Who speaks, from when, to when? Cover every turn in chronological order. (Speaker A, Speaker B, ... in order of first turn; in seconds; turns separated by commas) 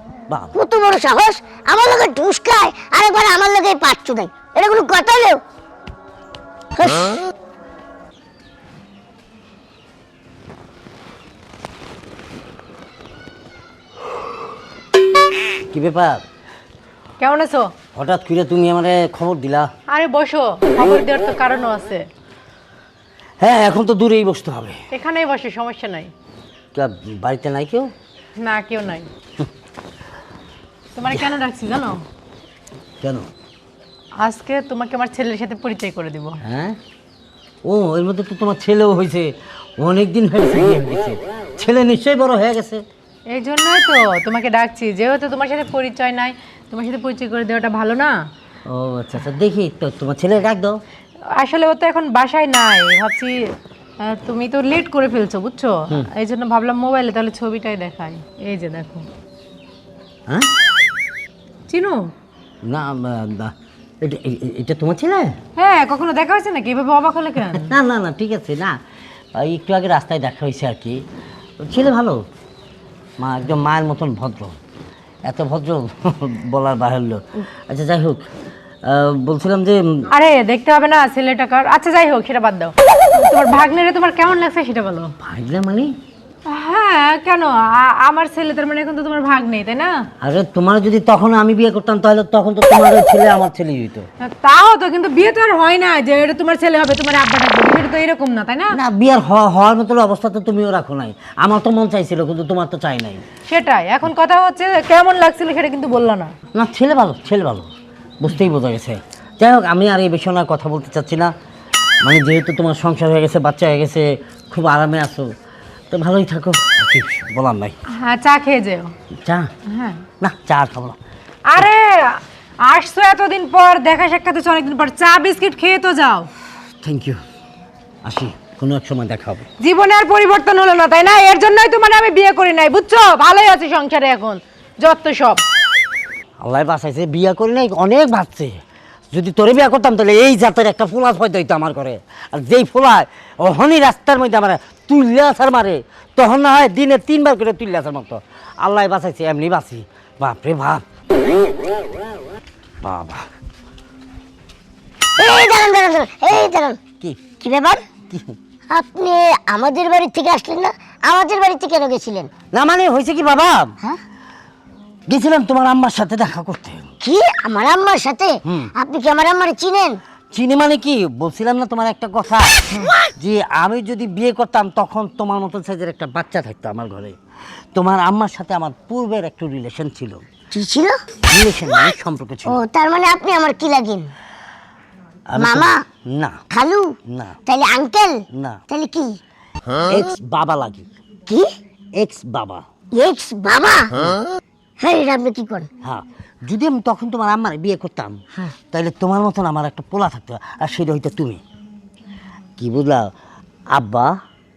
Speaker A: 0.5-5.4, Speaker A: 6.8-7.2, Speaker B: 15.7-16.2, Speaker C: 17.2-17.7, Speaker B: 17.9-19.7, Speaker C: 19.9-22.1, Speaker B: 23.4-24.8, Speaker C: 24.9-26.1, Speaker B: 26.7-27.9, Speaker C: 28.4-29.1, Speaker C: 30.9-32.0, Speaker B: 33.0-33.3, Speaker C: 34.2-36.4, Speaker B: 36.4-36.8, Speaker B: 37.6-42.8, Speaker C: 43.4-48.1, Speaker B: 48.6-50.8, Speaker C: 51.4-53.3, Speaker C: 54.2-59.0, Speaker C: 61.7-62.1, Speaker B: 62.6-65.4, Speaker C: 65.6-67.8, Speaker B: 67.4-68.8, Speaker B: 69.3-71.0, Speaker B: 71.6-72.2, Speaker B: 73.2-74.6, Speaker B: 75.2-78.3, Speaker B: 78.8-80.1, Speaker C: 80.1-85.1, Speaker B: 85.2-85.9, Speaker C: 86.5-89.9, Speaker B: 90.2-94.1, Speaker C: 94.2-98.8, Speaker B: 98.7-103.2, Speaker C: 103.5-106.3, Speaker B: 106.5-111.3, Speaker B: 112.0-115.3, Speaker B: 115.9-117.7, Speaker C: 118.0-118.9, Speaker B: 119.2-119.5, Speaker C: 119.8-120.0, Speaker B: 120.2-121.0, Speaker C: 121.5-126.3, Speaker B: 126.8-127.2, Speaker B: 128.0-129.4, Speaker C: 129.6-135.4, Speaker B: 136.4-138.6, Speaker B: 139.1-150.8, Speaker B: 152.8-153.3, Speaker A: 155.2-156.8, Speaker A: 157.4-157.8, Speaker B: 158.1-158.3, Speaker A: 158.7-162.3, Speaker B: 162.5-163.7, Speaker B: 165.1-166.9, Speaker A: 167.0-170.0, Speaker B: 168.4-168.7, Speaker B: 170.3-172.5, Speaker B: 173.1-177.2, Speaker B: 177.7-180.2, Speaker A: 180.5-180.9, Speaker B: 181.3-182.6, Speaker A: 182.4-184.1, Speaker B: 185.3-186.4, Speaker A: 185.3-185.8, Speaker A: 186.5-186.9, Speaker B: 187.1-187.4, Speaker A: 187.4-189.2, Speaker B: 188.3-188.6, Speaker B: 189.9-190.9, Speaker B: 192.0-192.6, Speaker A: 192.9-194.2, Speaker A: 194.8-195.7, Speaker B: 195.8-198.2, Speaker B: 198.7-201.4, Speaker B: 202.6-203.1, Speaker B: 203.7-204.2